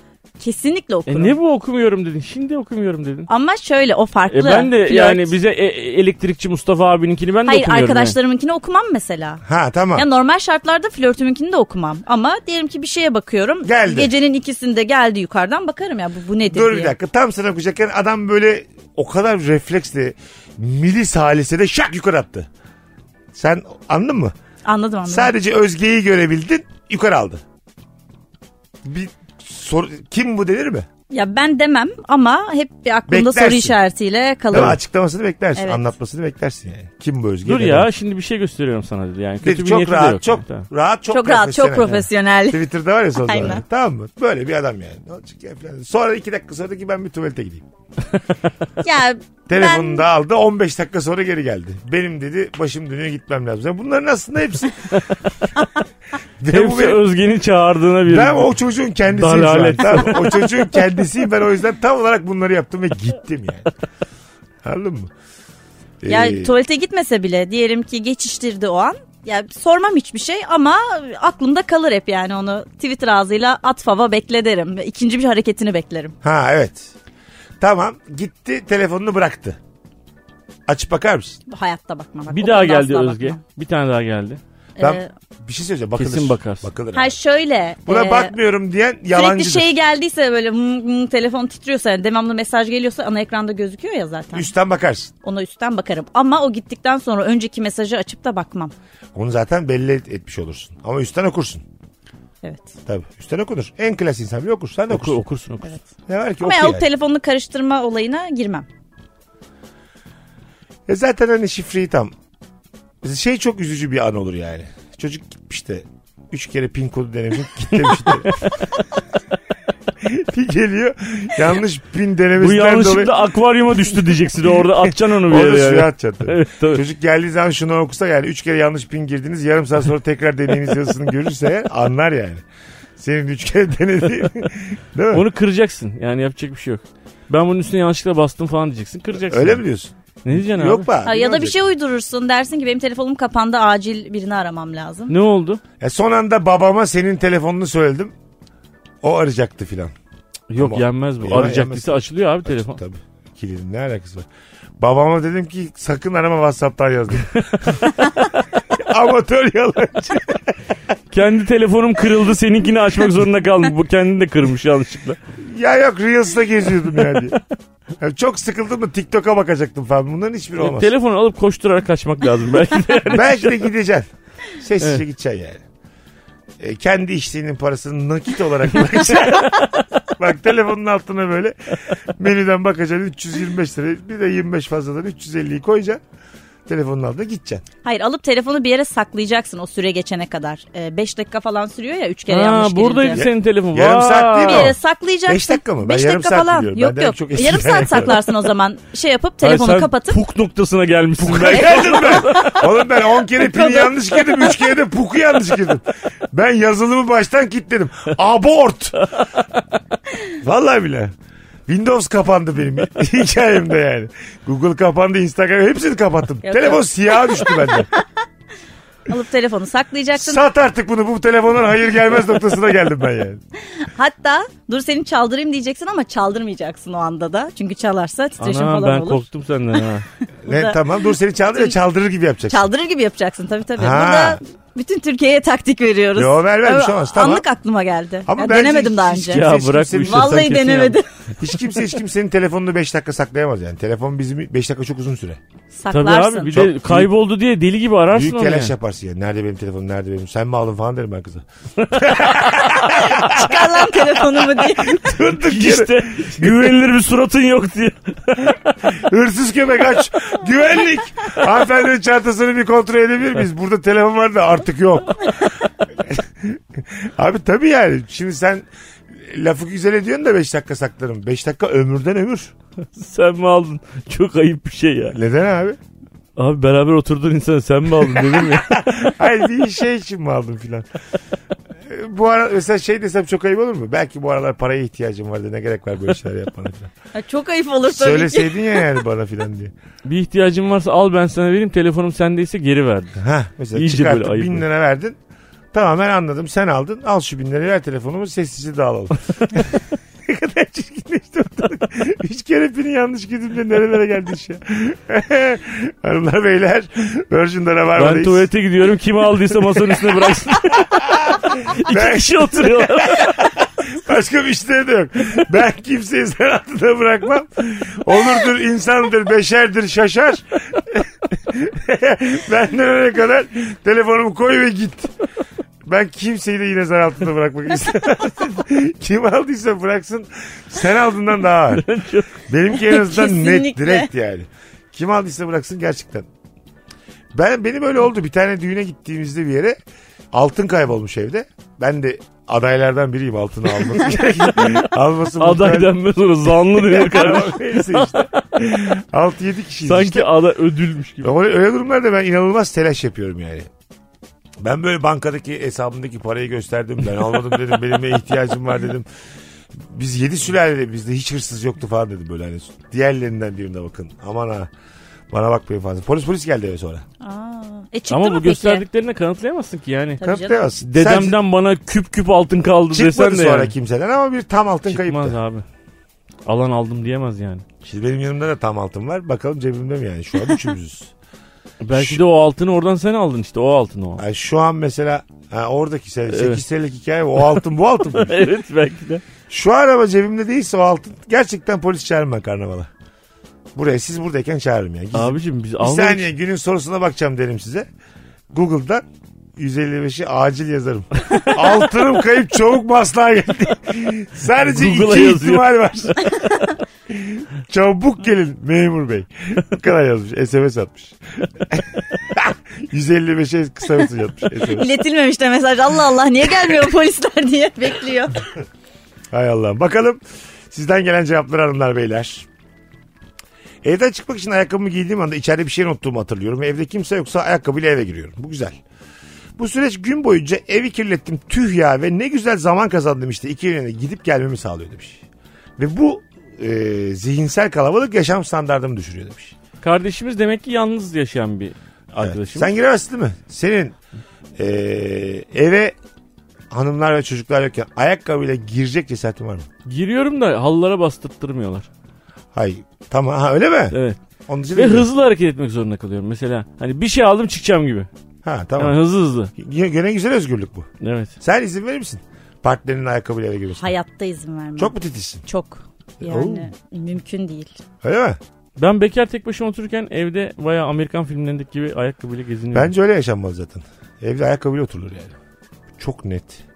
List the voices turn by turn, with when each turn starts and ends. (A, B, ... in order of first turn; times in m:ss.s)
0:00.4-0:01.4 A
0:01.1-0:03.3 B
0:03.3-0:05.4 A
0:04.3-0:08.2 B
0:07.5-0:09.4 A
0:09.4-0:10.0 C
0:10.0-0:17.0 A
0:13.6-0:14.1 C
0:16.4-0:22.5 C
0:23.3-0:24.3 C
0:24.6-0:25.3 A
0:25.1-0:27.4 C
0:28.8-0:30.9 C
0:31.1-0:34.8 A
0:33.1-0:33.8 C
0:34.5-0:37.9 C
0:35.6-0:35.8 A
0:37.5-0:40.7 B
0:39.4-0:47.7 C
0:41.1-0:42.6 A
0:43.2-0:43.6 A
0:48.8-0:50.0 A
0:49.5-0:54.9 C
0:56.4-0:57.0 C
0:56.5-0:58.5 B
0:58.0-1:03.7 C
0:59.1-1:00.5 B
1:04.6-1:05.1 C
1:06.0-1:06.5 C
1:06.1-1:16.2 A
1:16.2-1:16.9 C
1:17.6-1:19.6 C
1:20.7-1:21.4 C
1:21.5-1:23.4 A
1:22.3-1:24.4 B
1:24.8-1:25.1 A
1:24.8-1:27.2 C
1:26.0-1:26.7 B
1:26.9-1:28.3 A
1:27.9-1:29.7 C
1:29.1-1:34.5 A
1:34.3-1:35.1 C
1:35.2-1:38.7 A
1:39.2-1:41.6 C
1:42.4-1:42.7 A
1:42.9-1:45.2 C
1:44.9-1:45.8 B
1:46.1-1:46.9 C
1:46.4-1:48.7 A
1:50.9-1:52.1 C
1:53.0-1:58.4 C
1:58.0-1:58.6 B
2:00.0-2:03.1 C
2:02.4-2:06.8 B
2:04.7-2:12.4 C
2:13.0-2:15.3 C
2:15.1-2:19.6 B
2:19.2-2:21.6 C
2:20.2-2:20.9 B
2:21.0-2:25.1 A
2:25.1-2:25.6 B
2:25.8-2:28.1 C
2:29.0-2:29.9 C
2:30.5-2:32.8 B
2:30.6-2:34.3 C
2:34.8-2:37.8 C
2:38.7-2:40.6 C
2:41.1-2:45.2 B
2:45.4-2:47.4 C
2:48.0-2:50.9 C
2:50.6-2:53.6 B
2:53.1-2:55.6 C
2:56.6-3:06.0 C
3:06.7-3:07.6 C
3:07.8-3:13.2 A
3:12.3-3:14.8 B
3:13.1-3:18.2 C
3:14.4-3:20.2 A
3:19.4-3:22.6 B
3:21.2-3:29.1 C
3:21.5-3:22.6 A
3:23.4-3:24.4 A
3:30.4-3:31.1 C
3:31.7-3:37.9 C
3:36.5-3:38.0 A
3:39.1-3:40.4 A
3:40.2-3:43.4 C
3:43.7-3:49.2 A
3:48.4-3:50.1 B
3:50.4-3:52.7 C
3:50.5-3:51.0 A
3:52.5-3:59.5 A
3:53.8-3:54.4 C
3:56.2-3:57.4 C
3:58.3-4:00.7 C
3:59.3-4:01.0 B
4:00.0-4:01.1 A
4:01.4-4:05.4 C
4:05.7-4:06.6 A
4:05.9-4:08.7 B
4:06.5-4:07.1 C
4:08.1-4:16.8 C
4:11.8-4:12.2 B
4:13.1-4:15.0 A
4:15.4-4:18.8 B
4:18.8-4:32.5 C
4:32.9-4:35.2 B
4:35.1-4:35.8 C
4:36.4-4:39.0 B
4:38.1-4:40.9 C
4:41.8-4:46.9 C
4:47.1-4:48.8 A
4:47.9-4:49.7 C
4:50.0-4:53.2 B
4:53.2-4:55.2 C
4:53.7-4:54.6 B
4:55.7-5:08.5 C
5:08.0-5:13.5 B
5:10.7-5:25.1 C
5:25.8-5:31.9 C
5:31.7-5:32.3 B
5:32.4-5:36.3 C
5:32.8-5:34.1 A
5:37.3-5:39.8 C
5:40.3-5:45.9 C
5:44.1-5:44.8 B
5:45.4-5:48.6 B
5:46.7-5:50.3 C
5:49.8-5:51.3 B
5:51.2-5:53.7 C
5:54.6-5:59.1 C
5:59.8-6:04.7 C
6:05.3-6:07.0 C
6:07.2-6:08.8 A
6:08.1-6:10.2 B
6:10.2-6:10.6 A
6:10.2-6:11.4 C
6:10.8-6:13.7 B
6:12.9-6:15.4 C
6:14.9-6:15.6 B
6:16.5-6:17.7 B
6:17.8-6:21.1 C
6:21.8-6:24.2 B
6:21.9-6:22.2 C
6:24.2-6:28.5 C
6:26.3-6:26.6 B
6:28.1-6:29.2 B
6:29.5-6:32.9 C
6:33.8-6:37.9 C
6:35.1-6:36.3 B
6:38.5-6:39.0 C
6:39.6-6:46.5 C
6:44.6-6:46.1 B
6:47.1-6:54.9 C
6:54.7-6:58.4 A
6:59.3-7:00.2 C
7:00.7-7:02.5 C
7:03.8-7:08.8 C
7:09.6-7:15.2 C
7:15.8-7:19.6 C
7:19.8-7:22.7 B
7:22.2-7:24.0 C
7:24.6-7:26.0 C
7:26.7-7:29.7 C
7:29.9-7:31.9 B
7:32.5-7:34.0 C
7:33.9-7:34.2 B
7:34.5-7:35.1 C
7:34.7-7:38.1 B
7:38.4-7:39.0 C
7:38.8-7:39.5 B
7:39.6-7:40.9 C
7:41.0-7:41.3 B
7:41.4-7:43.9 C
7:43.8-7:47.8 A
7:44.8-7:45.4 C
7:46.2-7:46.7 C
7:48.0-7:48.4 C
7:48.8-7:52.9 B
7:52.7-7:55.3 C
7:56.0-7:56.6 C